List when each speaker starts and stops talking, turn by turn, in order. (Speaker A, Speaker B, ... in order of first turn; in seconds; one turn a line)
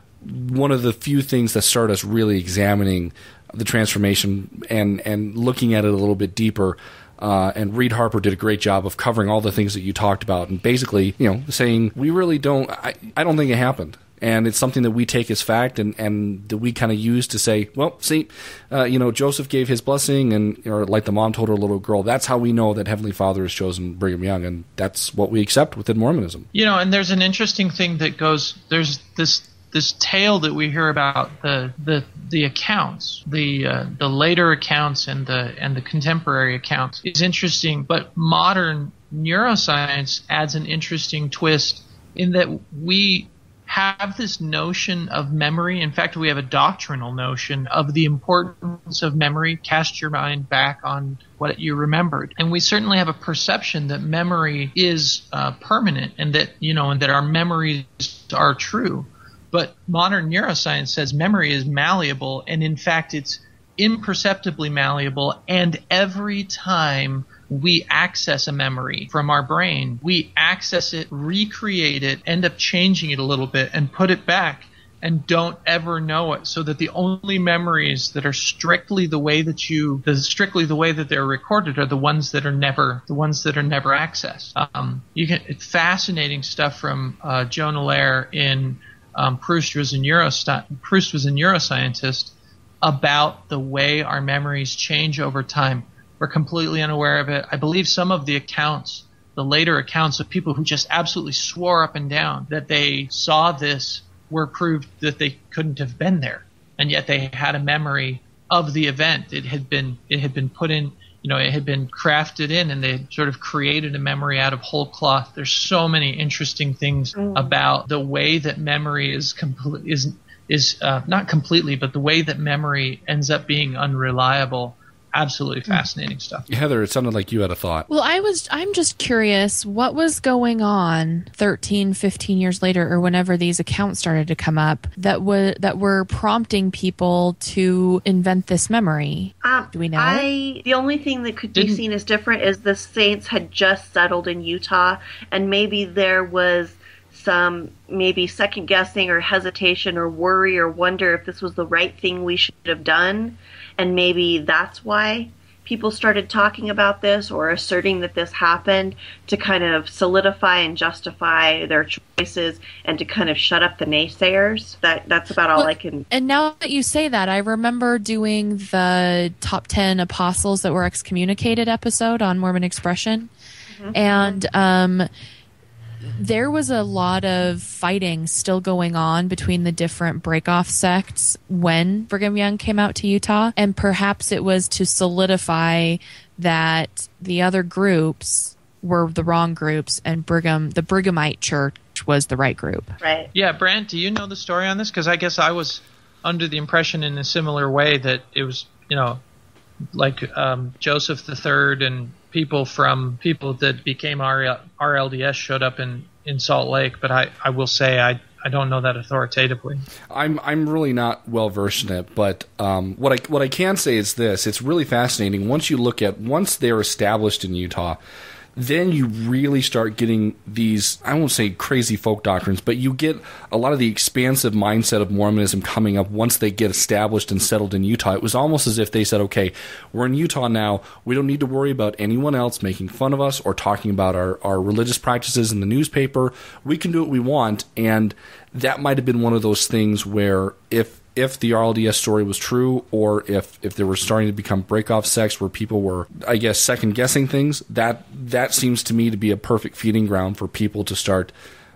Speaker A: 0.2-26.5
Speaker B: 26.5-126.5
Speaker C: 117.2-117.6
Speaker A: 126.5-127.9
Speaker D: 127.9-140.3
Speaker C: 139.4-166.1
Speaker B: 141.6-141.8
Speaker D: 165.6-173.3
Speaker D: 173.9-175.1
Speaker D: 176.1-193.0
Speaker C: 193.0-193.3
Speaker B: 193.3-199.2
Speaker B: 199.9-209.8
Speaker A: 210.1-218.0
Speaker A: 218.6-251.3